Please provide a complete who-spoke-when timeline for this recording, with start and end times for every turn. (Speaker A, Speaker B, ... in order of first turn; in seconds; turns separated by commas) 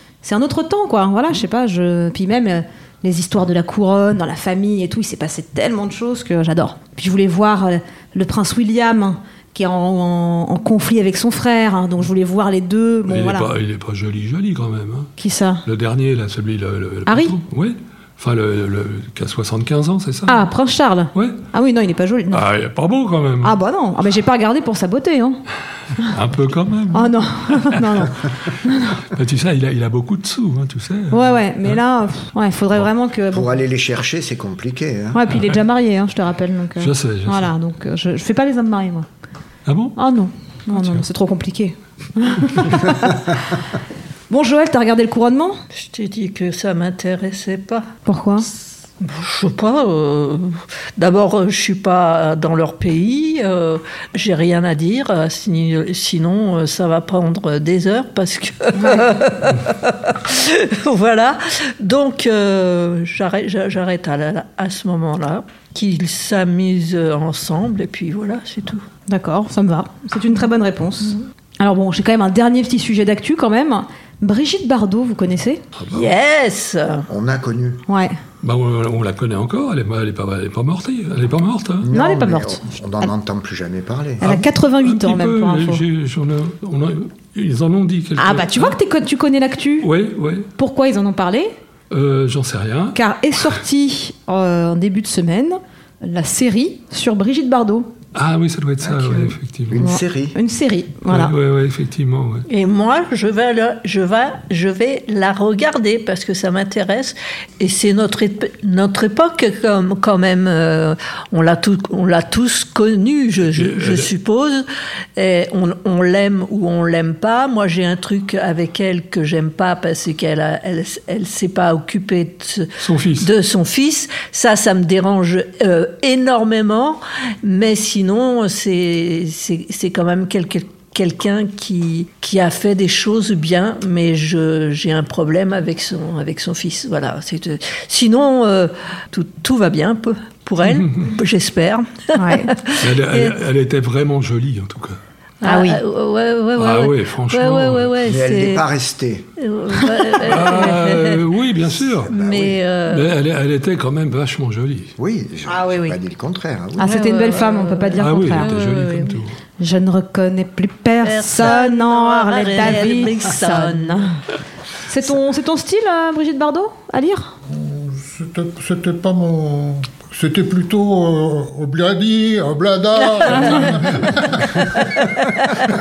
Speaker A: 0.2-13.5, Speaker B: 13.1-15.1, Speaker A: 15.2-15.6, Speaker B: 15.7-20.4, Speaker A: 17.1-17.4, Speaker A: 20.3-22.4, Speaker B: 21.1-21.4, Speaker B: 22.3-23.6, Speaker A: 23.4-25.4, Speaker B: 26.0-28.1, Speaker A: 26.9-29.0, Speaker B: 28.9-31.8, Speaker A: 31.1-33.5, Speaker C: 33.3-35.3, Speaker A: 35.1-39.1, Speaker B: 36.8-37.5, Speaker B: 39.6-40.0, Speaker A: 40.0-43.6, Speaker B: 40.8-41.0, Speaker A: 44.3-45.6, Speaker D: 45.7-47.9, Speaker A: 48.0-48.5, Speaker D: 49.0-68.8, Speaker A: 58.8-59.0, Speaker A: 69.1-75.6, Speaker B: 75.8-76.1, Speaker D: 75.9-77.1, Speaker C: 77.1-77.8, Speaker A: 77.9-78.2, Speaker B: 78.4-81.9, Speaker C: 81.8-84.2, Speaker A: 81.9-83.1, Speaker A: 84.2-85.8, Speaker B: 84.2-88.8, Speaker A: 88.2-89.9, Speaker B: 89.8-90.5, Speaker A: 90.6-91.5, Speaker B: 91.9-93.0, Speaker A: 92.9-97.9, Speaker B: 98.1-99.8, Speaker C: 98.8-100.4, Speaker A: 99.8-101.3, Speaker B: 101.1-102.5, Speaker D: 102.5-122.7, Speaker B: 113.4-114.1, Speaker B: 122.8-123.3, Speaker D: 123.2-143.3, Speaker B: 140.7-141.1, Speaker A: 142.1-142.5, Speaker B: 142.8-145.0, Speaker D: 145.4-148.7, Speaker A: 145.4-145.8, Speaker B: 146.6-148.0, Speaker C: 148.0-149.3, Speaker D: 149.4-151.2, Speaker B: 150.2-152.1, Speaker C: 152.1-152.6, Speaker D: 152.1-153.1, Speaker B: 152.9-154.9, Speaker C: 155.0-157.1, Speaker A: 156.8-158.5, Speaker D: 156.8-159.2, Speaker B: 158.0-159.4, Speaker A: 159.6-164.2, Speaker D: 161.0-164.1, Speaker A: 164.8-167.3, Speaker E: 167.5-174.9